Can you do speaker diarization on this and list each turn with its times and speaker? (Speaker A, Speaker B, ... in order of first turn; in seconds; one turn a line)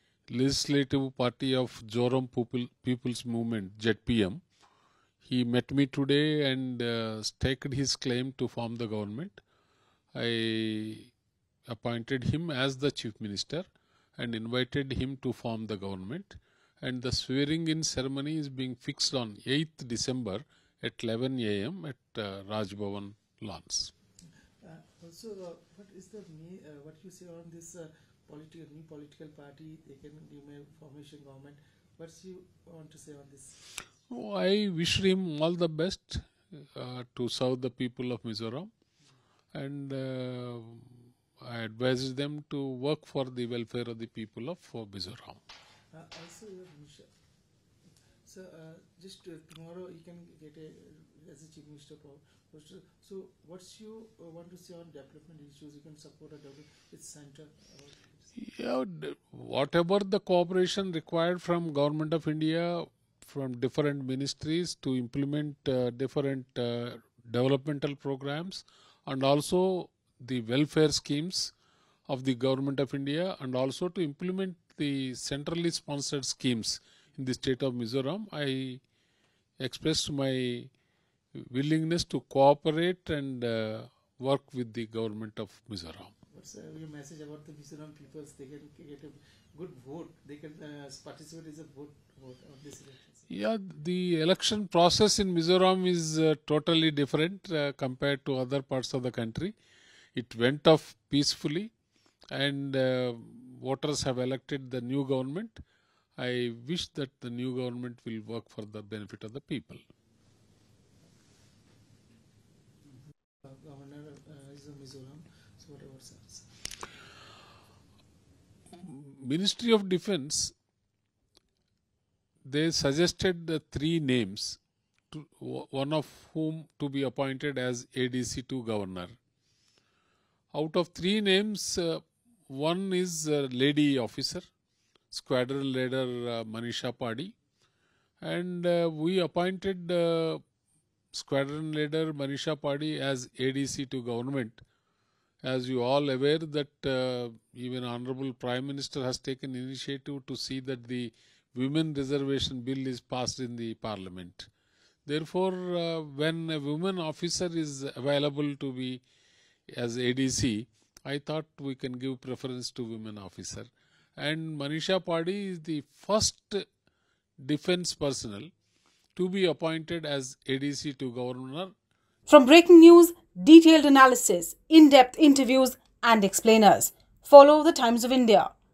Speaker A: 0.3-4.4
Speaker A: 5.2-9.4
Speaker A: 10.1-11.1
Speaker A: 11.7-23.9
Speaker B: 24.6-33.6
Speaker A: 34.1-38.7
Speaker A: 39.5-45.4
Speaker B: 45.9-47.1
Speaker B: 48.2-58.3
Speaker A: 58.4-71.5
Speaker A: 72.1-78.8
Speaker A: 79.6-80.7
Speaker A: 81.3-86.1
Speaker B: 86.3-93.3
Speaker A: 93.3-99.5
Speaker A: 100.1-101.7
Speaker A: 102.3-105.6
Speaker A: 106.2-109.8
Speaker B: 113.4-116.5
Speaker A: 118.8-120.5
Speaker A: 122.4-124.6
Speaker A: 125.1-129.1
Speaker A: 130.5-134.4
Speaker A: 135.1-137.3
Speaker A: 138.2-140.4
Speaker A: 141.1-144.6
Speaker A: 145.4-154.5
Speaker A: 155.1-159.0
Speaker A: 159.7-166.7
Speaker A: 167.4-168.5
Speaker A: 169.2-171.7
Speaker C: 172.3-178.5